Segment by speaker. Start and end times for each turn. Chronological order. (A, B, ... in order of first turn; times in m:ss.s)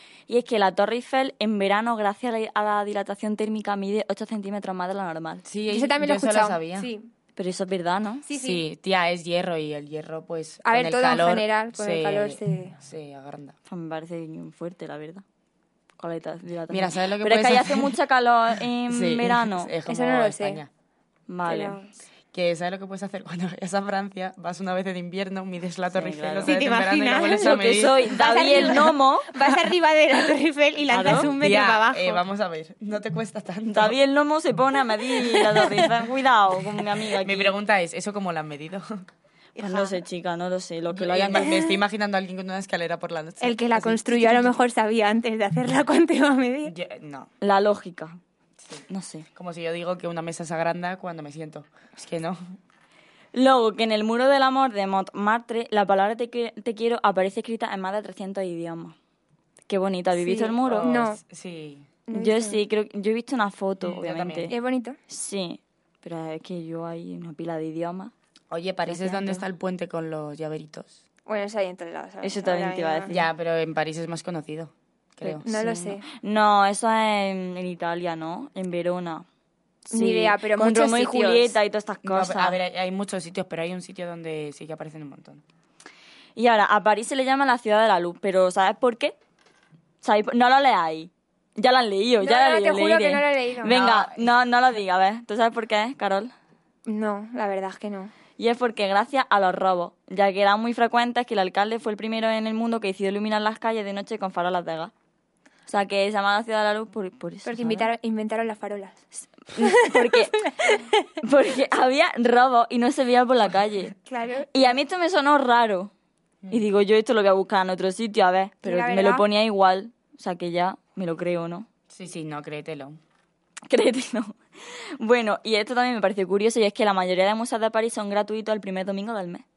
0:00.3-0:05.4 A
0:05.4-0:06.9 B
0:05.7-0:07.1 C
0:07.4-0:08.2 A
0:08.2-0:08.6 C
0:08.3-0:13.6 B
0:10.6-0:12.8 C
0:13.7-0:15.2 A
0:16.0-0:19.7 A
0:16.7-0:17.9 B
0:18.9-0:20.7 B
0:19.9-0:20.6 C
0:21.3-0:21.8 A
0:21.4-0:21.9 C
0:22.3-0:28.0 B
0:25.9-0:26.5 A
0:26.4-0:32.2 C
0:27.4-0:29.3 A
0:30.9-0:31.3 A
0:31.2-0:34.0 B
0:33.7-0:37.5 A
0:35.3-0:35.7 C
0:37.2-0:39.0 B
0:39.6-0:40.0 C
0:39.6-0:41.5 A
0:40.9-0:44.6 B
0:41.3-0:41.8 C
0:43.4-0:46.7 C
0:46.6-0:47.3 B
0:47.4-0:48.2 A
0:48.6-0:52.6 B
0:48.9-0:49.3 A
0:53.3-0:58.9 A
0:59.7-1:00.9 A
1:00.1-1:01.2 C
1:00.6-1:01.9 B
1:02.1-1:02.6 C
1:02.1-1:04.5 A
1:03.8-1:04.5 B
1:04.5-1:05.0 C
1:05.1-1:08.1 A
1:08.5-1:11.0 B
1:08.9-1:09.4 A
1:11.2-1:13.1 C
1:12.2-1:13.2 A
1:13.1-1:15.4 B
1:15.2-1:19.2 A
1:15.4-1:16.0 C
1:19.9-1:22.6 A
1:19.9-1:21.6 C
1:22.0-1:25.4 B
1:26.4-1:29.1 A
1:30.0-1:36.3 A
1:32.2-1:34.1 C
1:36.8-1:38.1 C
1:38.4-1:44.9 A
1:45.7-1:47.9 A
1:47.4-1:49.0 C
1:49.5-1:50.5 A
1:49.6-1:51.0 C
1:51.2-1:53.9 A
1:54.1-1:54.7 C
1:54.5-1:55.9 A
1:56.5-2:01.7 A
1:58.6-1:59.2 C
2:01.9-2:03.0 B
2:03.7-2:09.4 A